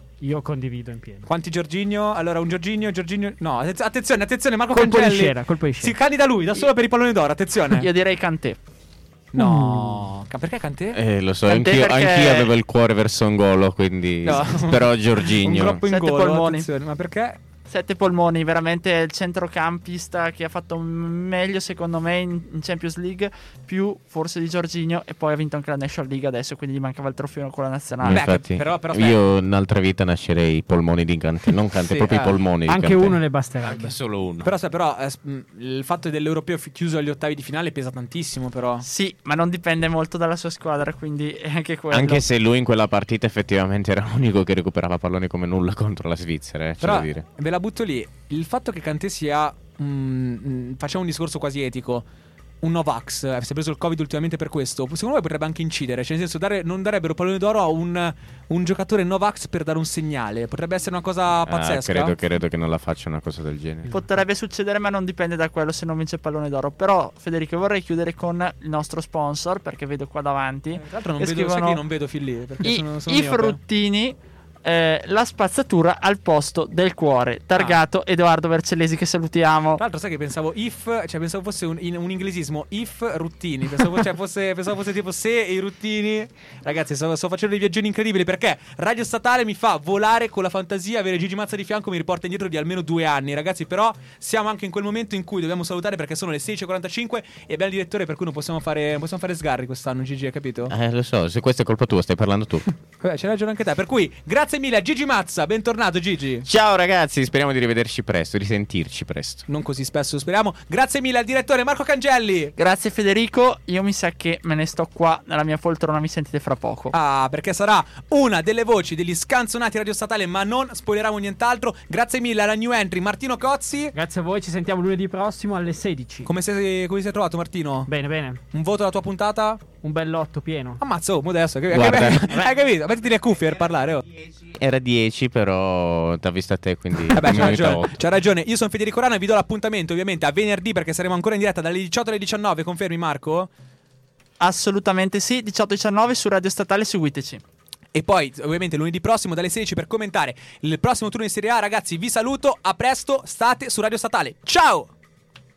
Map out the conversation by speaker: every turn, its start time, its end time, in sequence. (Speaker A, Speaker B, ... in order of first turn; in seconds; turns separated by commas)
Speaker A: 0.2-1.3, Speaker B: 1.3-7.9, Speaker A: 4.7-6.0, Speaker C: 7.7-8.6, Speaker B: 9.3-11.0, Speaker A: 9.4-10.0, Speaker D: 10.9-15.8, Speaker C: 11.5-12.5, Speaker B: 14.2-17.4, Speaker C: 15.9-16.7, Speaker C: 17.7-28.2, Speaker D: 28.0-34.5, Speaker B: 28.1-29.2, Speaker B: 31.9-32.5, Speaker A: 32.7-34.0, Speaker B: 34.4-38.9, Speaker C: 38.8-42.2, Speaker D: 41.9-47.2, Speaker B: 46.8-52.1, Speaker B: 52.6-62.1, Speaker D: 61.5-63.9, Speaker C: 63.9-71.8, Speaker B: 70.8-73.6, Speaker C: 72.6-79.8, Speaker B: 77.5-77.8, Speaker B: 79.8-100.7, Speaker D: 100.7-102.7, Speaker B: 103.0-106.5, Speaker D: 106.4-109.4, Speaker B: 109.5-112.5, Speaker C: 112.6-116.9, Speaker B: 116.9-123.9, Speaker A: 123.9-126.3, Speaker B: 126.3-127.9, Speaker A: 127.9-128.4, Speaker B: 128.5-129.6, Speaker A: 129.8-130.8, Speaker B: 130.8-134.1, Speaker D: 131.7-132.4, Speaker D: 134.4-138.1, Speaker B: 137.1-143.5, Speaker C: 144.4-147.4, Speaker B: 147.9-154.9